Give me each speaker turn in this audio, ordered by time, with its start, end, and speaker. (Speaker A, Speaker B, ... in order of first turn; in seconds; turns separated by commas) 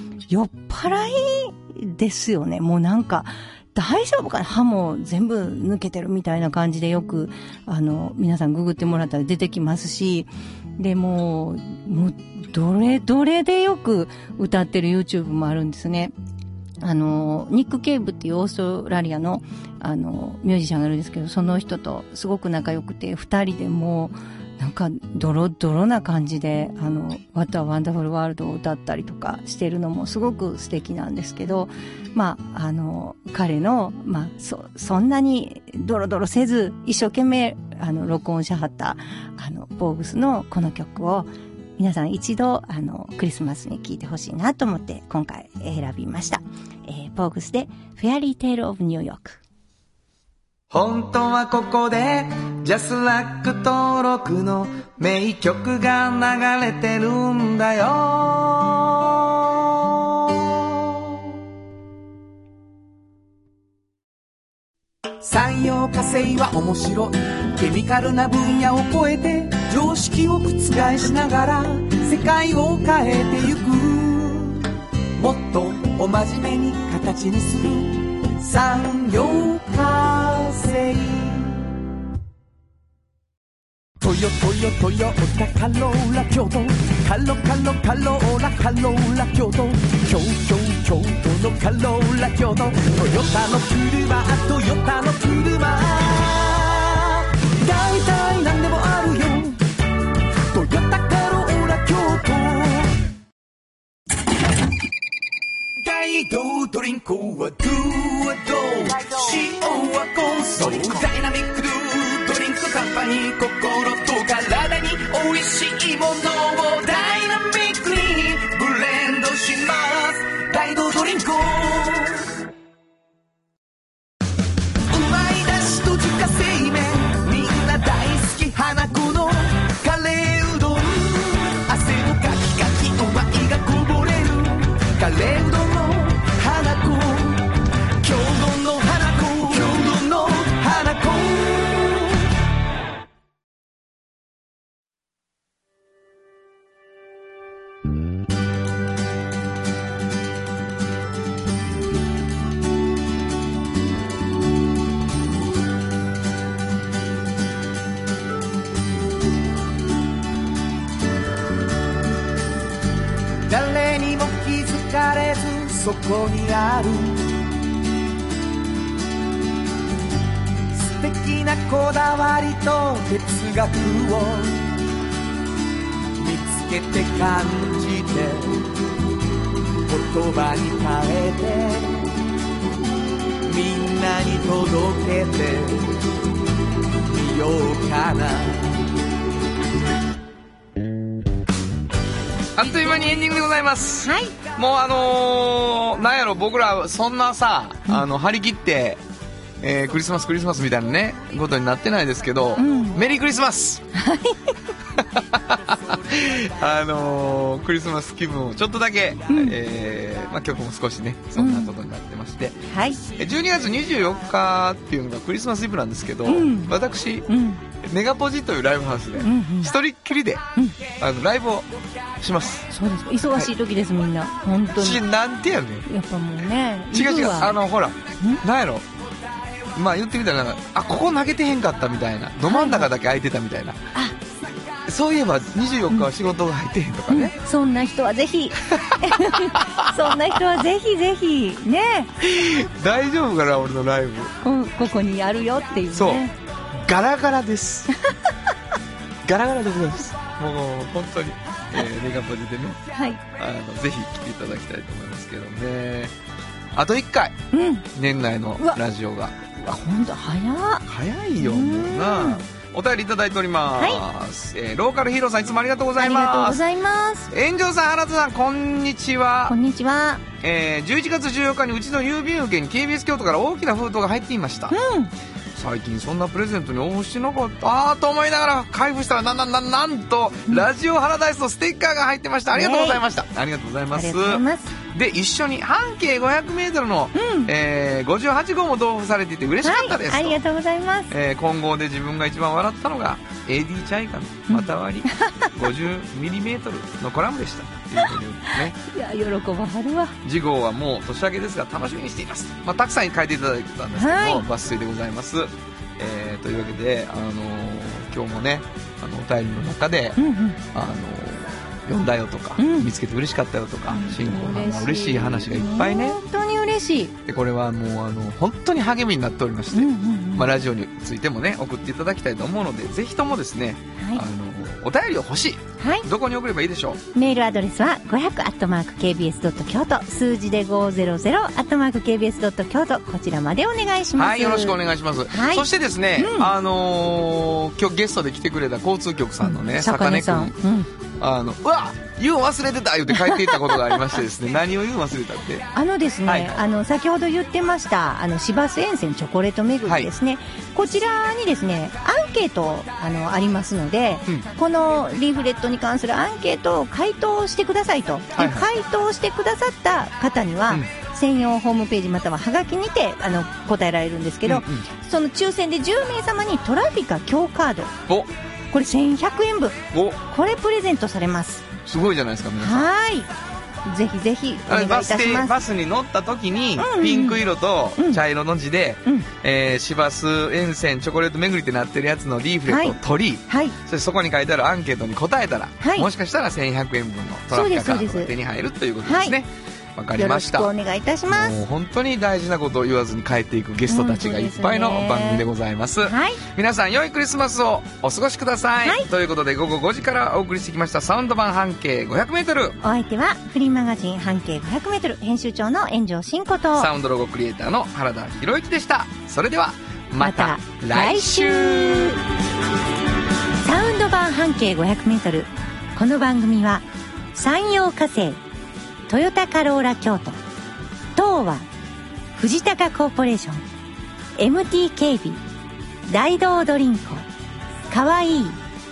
Speaker A: 0.3-16.1, Speaker A: 16.8-49.4, Speaker B: 50.7-60.3, Speaker C: 65.2-81.7, Speaker C: 84.0-99.6, Speaker C: 100.5-103.0, Speaker C: 105.8-122.4, Speaker C: 124.9-142.2, Speaker C: 163.5-167.3, Speaker C: 170.7-174.7, Speaker C: 176.2-178.7, Speaker C: 179.8-182.1, Speaker C: 183.4-186.0, Speaker C: 187.0-188.9, Speaker B: 192.5-199.0, Speaker A: 194.0-194.3, Speaker B: 199.6-203.8, Speaker A: 202.6-203.0, Speaker A: 203.9-204.6, Speaker B: 204.9-217.2, Speaker A: 209.3-209.5, Speaker A: 211.3-211.7, Speaker A: 212.7-213.0, Speaker A: 216.2-216.7, Speaker A: 217.3-217.6, Speaker B: 217.8-220.4, Speaker A: 219.2-219.7, Speaker B: 221.0-221.7, Speaker B: 222.2-222.7, Speaker A: 222.7-225.0, Speaker B: 224.8-225.9, Speaker A: 225.9-227.5, Speaker B: 226.9-228.8, Speaker B: 229.7-233.8, Speaker A: 232.4-232.9, Speaker B: 234.9-237.3, Speaker A: 237.1-242.1, Speaker B: 238.7-240.1, Speaker B: 242.2-244.3, Speaker A: 244.4-246.3, Speaker B: 245.9-246.2, Speaker B: 246.8-247.9, Speaker B: 249.2-252.8, Speaker A: 252.9-253.2, Speaker B: 253.3-256.1, Speaker B: 256.7-257.4, Speaker A: 257.5-257.9, Speaker B: 257.9-259.3, Speaker A: 259.6-260.8, Speaker B: 260.9-266.6, Speaker A: 261.4-262.4, Speaker A: 263.8-264.0, Speaker A: 266.0-267.3, Speaker B: 267.3-269.5, Speaker A: 269.5-270.2, Speaker B: 270.4-274.7, Speaker A: 274.7-275.1, Speaker B: 275.5-290.4, Speaker A: 282.5-283.0, Speaker A: 283.9-284.8, Speaker A: 287.1-287.5, Speaker A: 289.6-291.1, Speaker B: 291.1-298.8, Speaker A: 294.5-295.5, Speaker A: 298.8-300.2, Speaker B: 300.2-310.2, Speaker A: 303.9-304.4, Speaker A: 310.2-310.6, Speaker B: 310.7-316.2, Speaker A: 312.6-312.9, Speaker A: 313.9-317.1, Speaker B: 317.2-327.0, Speaker A: 319.7-320.5, Speaker A: 324.0-324.2, Speaker A: 325.8-326.1, Speaker A: 327.1-334.8, Speaker B: 334.2-340.5, Speaker A: 335.3-336.5, Speaker A: 339.4-340.9, Speaker B: 341.2-345.6, Speaker A: 343.1-343.9, Speaker A: 345.7-367.9, Speaker B: 346.2-346.6, Speaker B: 358.4-358.7, Speaker B: 364.4-364.8, Speaker A: 368.7-371.7, Speaker B: 369.9-370.2, Speaker B: 371.9-372.9, Speaker A: 372.6-373.3, Speaker A: 373.9-375.6, Speaker B: 374.7-390.7, Speaker A: 376.8-377.4, Speaker A: 382.7-383.8, Speaker A: 385.8-386.1, Speaker A: 387.5-388.3, Speaker A: 389.0-389.4, Speaker A: 390.1-391.6, Speaker B: 391.3-402.8, Speaker A: 393.9-395.4, Speaker A: 396.0-396.4, Speaker A: 402.8-406.9, Speaker B: 406.8-412.2, Speaker A: 410.2-412.2, Speaker A: 413.6-418.4, Speaker A: 419.1-420.4, Speaker A: 421.1-421.7, Speaker A: 422.3-423.6, Speaker A: 424.4-425.4, Speaker A: 426.1-427.3, Speaker A: 427.9-428.6